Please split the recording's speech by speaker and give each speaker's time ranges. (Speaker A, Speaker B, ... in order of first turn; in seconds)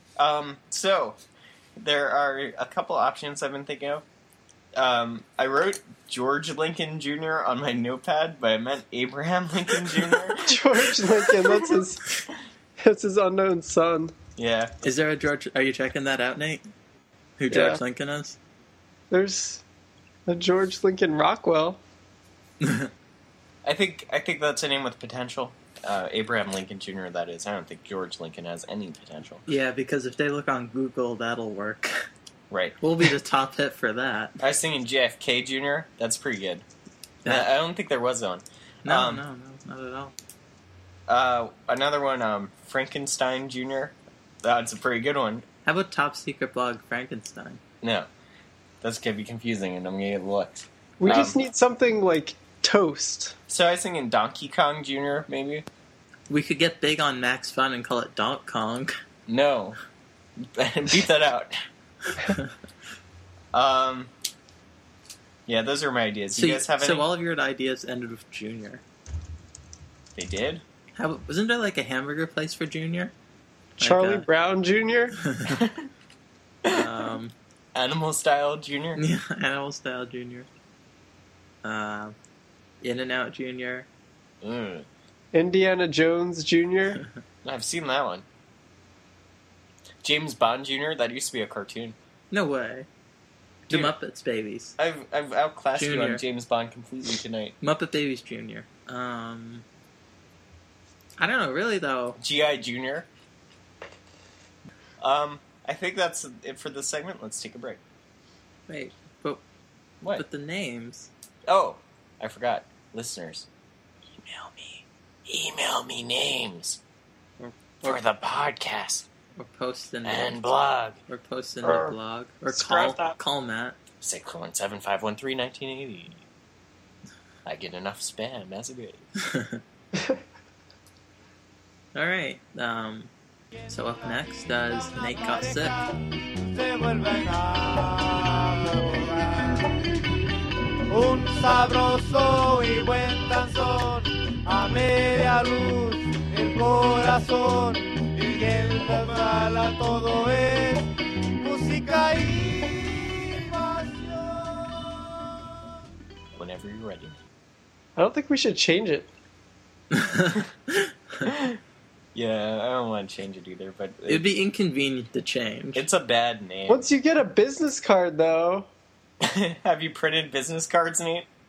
Speaker A: 0.2-1.2, 1.8-4.0, 4.8-11.8, 14.4-14.7, 23.6-29.4, 32.5-32.8, 34.4-36.6, 37.2-39.2, 41.1-45.5, 47.8-48.1, 48.8-51.4, 53.5-55.7, 59.3-59.8, 60.4-61.5, 63.5-64.1, 65.5-67.1, 70.2-70.6, 75.5-75.9, 76.6-77.1, 77.8-79.0, 84.4-84.9, 87.4-88.2, 90.0-92.0, 93.7-94.0, 94.8-97.5, 102.2-103.1, 105.0-107.8, 111.5-113.5, 114.2-116.8, 117.8-119.1, 120.0-121.0, 121.6-122.0, 122.5-123.2, 124.0-126.2, 127.5-129.1, 156.3-157.2, 161.2-161.6, 162.2-164.3, 165.8-166.9, 169.2-171.3
Speaker B: 10.3-12.2, 12.8-14.1, 17.5-17.8, 19.1-19.6, 20.3-21.8, 51.0-53.4, 73.8-75.2, 85.3-87.0, 158.0-159.1, 166.7-168.7
Speaker C: 14.8-16.6, 17.4-18.4, 22.6-22.9, 29.5-32.0, 32.8-34.4, 37.2-37.5, 38.9-40.1, 45.6-47.6, 56.3-58.9, 62.2-62.5, 66.4-68.8, 71.0-73.1, 73.8-74.3, 75.2-75.6, 76.7-77.3, 79.0-80.5, 81.6-82.2, 82.8-83.9, 92.3-92.9, 93.7-94.8, 95.8-96.2, 97.6-99.7, 101.2-102.2, 108.7-109.4, 110.2-111.1, 117.4-118.0, 119.4-120.4, 121.1-123.8, 129.2-129.6, 131.9-133.1, 133.7-135.8, 159.9-161.3, 164.1-165.9
Speaker D: 134.7-139.8, 140.9-155.3